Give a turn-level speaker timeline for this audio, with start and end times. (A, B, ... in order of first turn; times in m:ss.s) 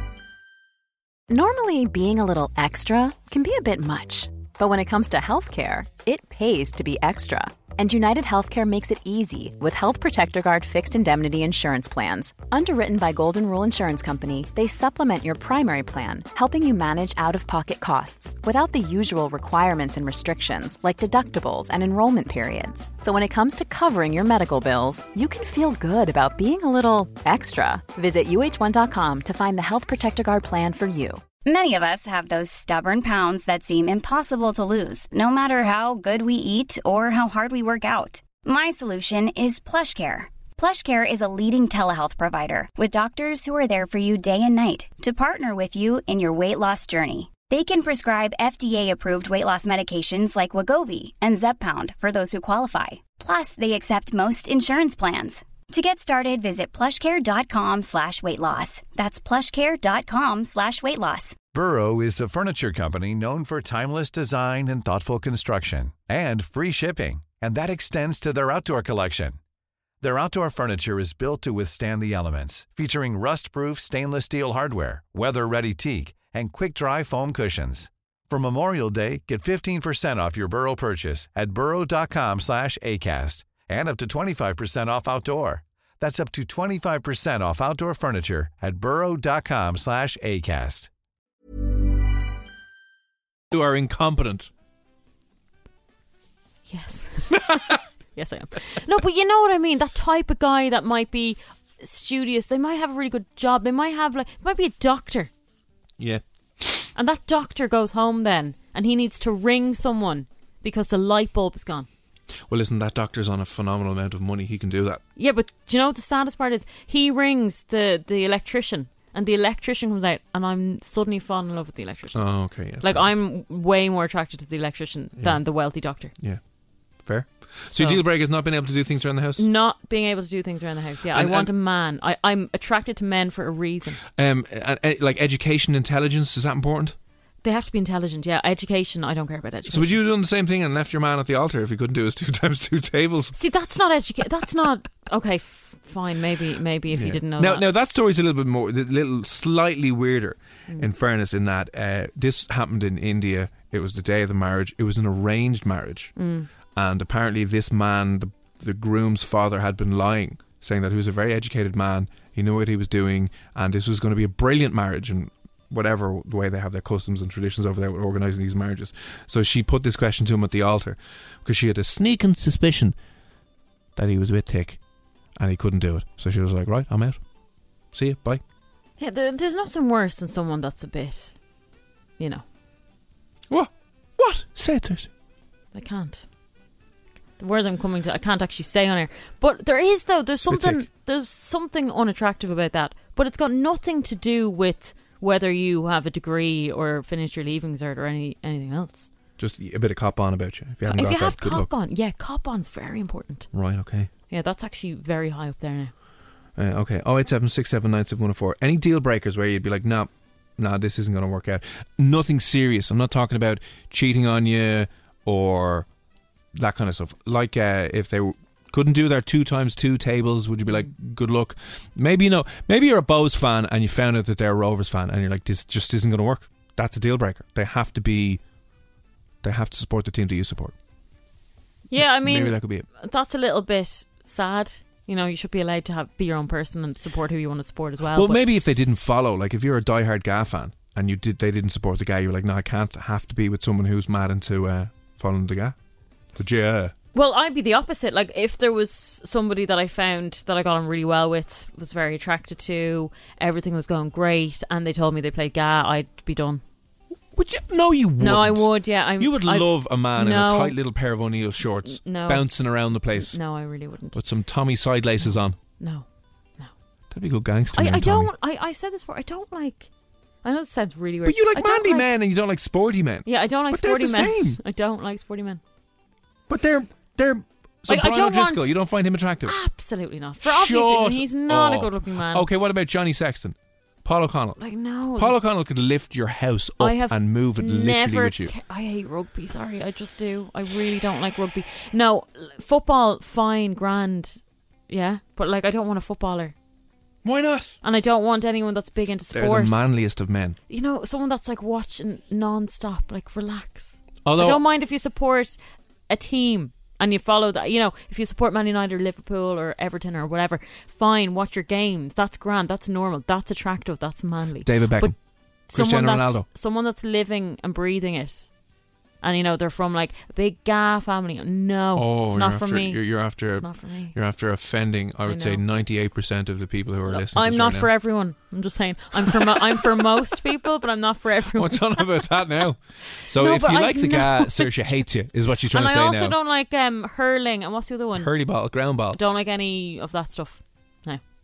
0:01.3-0:31.2 A
0:31.4-1:01.4 B
1:01.5-1:09.4 C
1:10.0-1:30.9 C
1:33.5-1:34.5 D
1:36.7-1:45.3 E
1:46.0-1:46.9 D
1:47.0-1:51.9 E
1:52.5-1:55.0 D
1:55.2-2:06.1 E
2:02.1-2:03.1 D
2:05.2-2:05.4 D
2:06.2-2:06.4 D
2:07.0-2:09.4 D
2:07.8-2:08.0 E
2:09.4-2:14.0 E
2:11.1-2:11.5 D
2:14.0-2:17.0 D
2:17.4-2:20.0 E
2:19.7-2:23.4 D
2:23.4-2:27.6 E
2:26.9-2:36.1 D
2:36.2-2:36.5 E
2:36.7-2:53.0 D
2:54.0-2:54.8 D
2:55.4-2:57.2 D
2:57.9-2:58.4 D
2:59.0-3:01.4 E
3:02.2-3:02.4 E
3:03.5-3:05.1 D
3:05.7-3:06.2 E
3:07.4-3:19.1 E
3:10.4-3:10.9 D
3:19.4-3:21.7 D
3:20.9-3:23.5 E
3:23.5-3:24.1 D
3:24.3-3:25.9 E
3:26.6-3:35.9 D
3:36.5-3:48.4 D
3:49.4-3:50.7 D
3:51.9-3:58.4 E
3:52.0-3:52.9 D
3:58.1-4:05.8 D
4:06.4-4:06.9 D
4:07.1-4:16.6 E
4:17.3-4:23.4 D
4:18.2-4:20.8 E
4:21.9-4:24.2 E
4:24.1-4:25.6 D
4:25.8-4:26.1 E
4:27.1-4:28.3 D
4:27.7-4:29.9 E
4:30.4-4:32.1 E
4:31.2-4:34.6 D
4:33.3-4:35.6 E
4:36.5-4:39.6 D
4:37.9-4:38.7 E
4:39.4-4:42.5 E
4:40.4-4:44.6 D
4:44.6-4:45.4 E
4:45.2-4:48.5 D
4:46.8-4:56.5 E
4:57.2-4:57.8 D
4:57.8-4:59.9 E
4:59.3-5:00.6 D
5:00.7-5:15.2 E
5:04.2-5:04.6 D
5:14.6-5:16.4 D
5:15.7-5:18.5 E
5:19.2-5:24.1 E
5:22.0-5:27.9 D
5:25.3-5:25.6 E
5:27.1-5:32.4 E
5:29.2-5:30.1 D
5:31.5-5:36.4 D
5:33.3-5:34.7 E
5:35.7-5:38.3 E
5:38.1-5:39.2 D
5:39.1-5:41.2 E